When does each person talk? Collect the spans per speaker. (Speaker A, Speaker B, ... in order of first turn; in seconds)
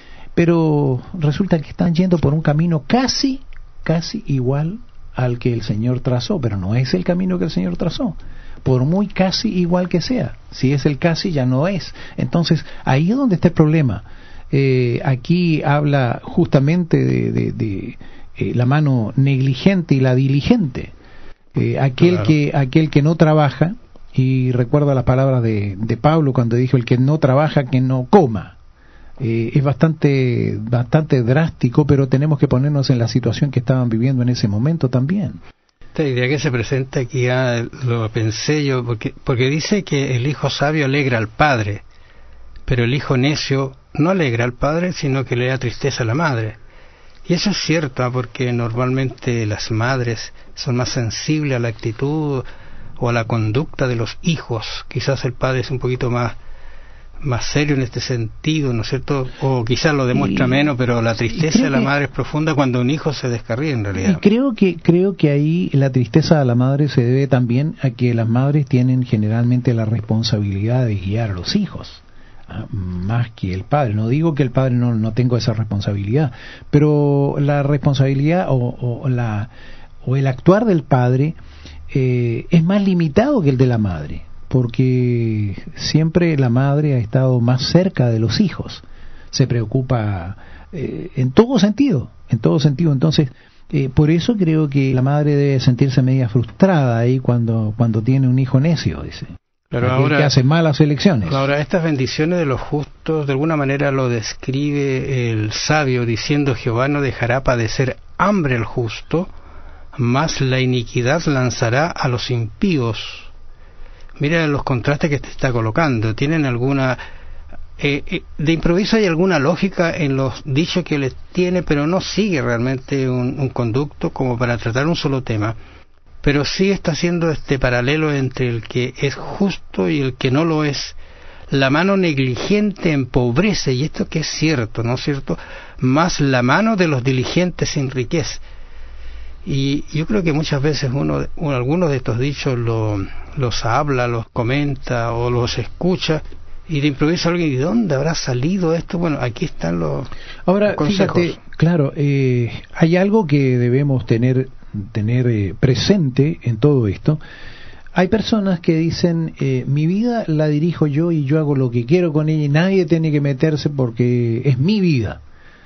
Speaker A: 0.4-20.9, 21.5-28.6, 29.2-35.4, 60.1-60.7, 61.3-61.9, 64.0-79.5, 80.0-81.4, 81.9-101.5, 150.4-157.2, 157.9-165.2
Speaker B: 22.0-22.3, 36.0-41.8, 42.7-46.6, 47.3-52.5, 53.0-56.4, 57.2-64.2, 99.7-100.3, 101.2-109.3, 109.9-113.3, 114.2-117.0, 117.8-125.5, 126.2-131.0, 131.5-138.4, 139.4-150.1, 150.7-151.4